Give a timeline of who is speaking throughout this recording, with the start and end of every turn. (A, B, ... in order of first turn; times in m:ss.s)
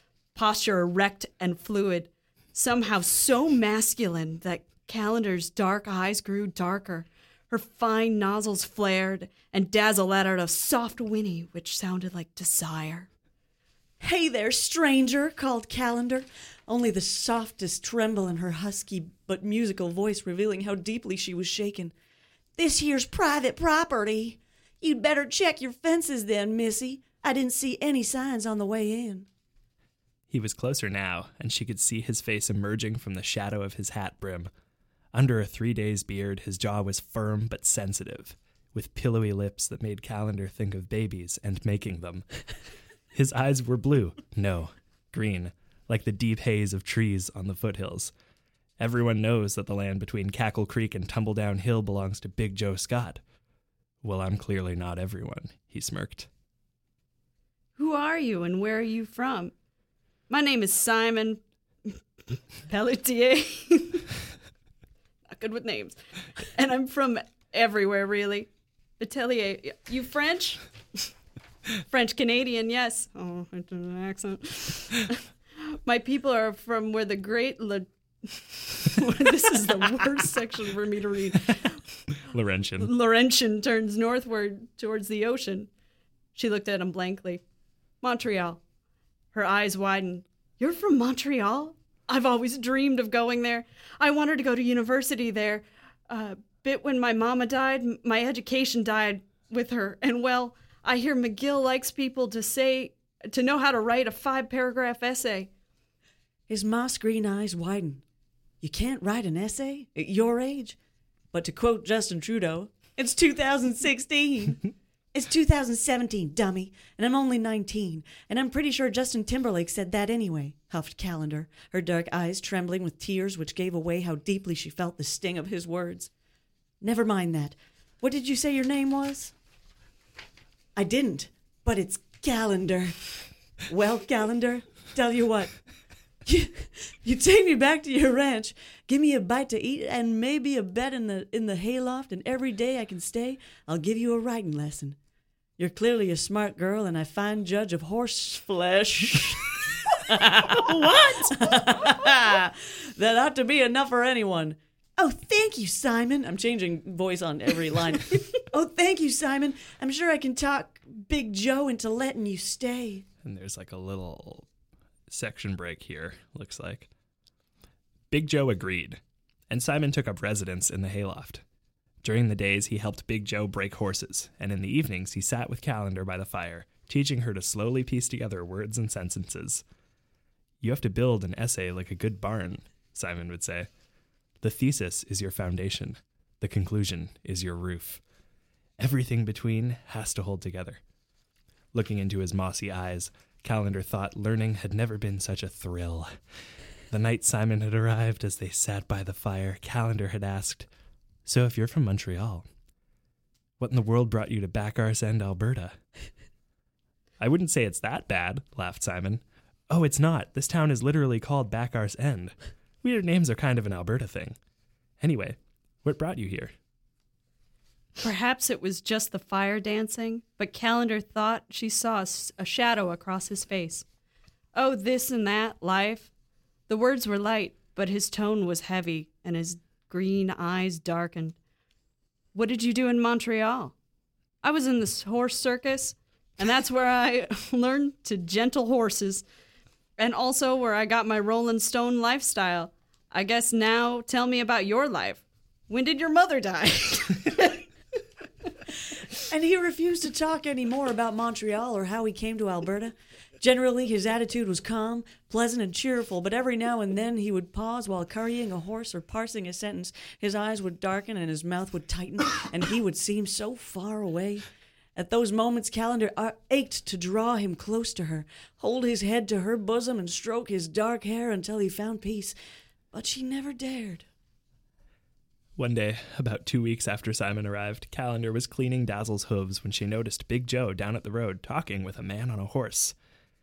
0:00.3-0:13.1 A
0:14.0-0:21.9 B
0:22.6-0:29.3 B
0:30.3-0:34.5 C
0:35.1-0:42.2 C
0:43.1-0:48.1 C
0:48.8-0:53.2 C
0:54.0-0:56.3 C
0:57.8-0:59.5 A
1:00.3-1:02.0 A
1:02.7-1:04.1 A
1:05.3-1:10.6 A
1:11.9-1:21.8 A
1:22.3-1:22.9 C
1:22.8-1:25.7 A
1:26.3-1:27.4 A
1:28.0-1:28.6 A
1:29.3-1:45.5 A
1:46.5-1:48.0 B
1:48.6-1:50.8 B
1:51.3-2:06.1 B
2:06.8-2:09.3 B
2:10.8-2:13.0 B
2:13.7-2:15.5 B
2:16.2-2:25.0 B
2:25.6-2:43.0 B
2:43.2-2:44.5 C
2:45.1-2:46.9 C
2:48.1-2:51.4 C
2:52.0-2:59.6 C
3:00.6-3:03.7 C
3:04.4-3:08.0 C
3:08.8-3:10.8 C
3:11.7-3:16.1 C
3:16.9-3:20.7 C
3:21.2-3:22.4 C
3:23.6-3:25.8 C
3:27.2-3:34.4 C
3:35.0-3:36.5 C
3:38.0-3:43.8 A
3:44.5-3:46.1 A
3:46.7-3:51.4 A
3:52.3-3:53.7 A
3:54.4-3:59.2 A
4:00.0-4:07.6 A
4:09.2-4:32.3 B
4:32.9-4:34.0 B
4:35.6-4:42.9 C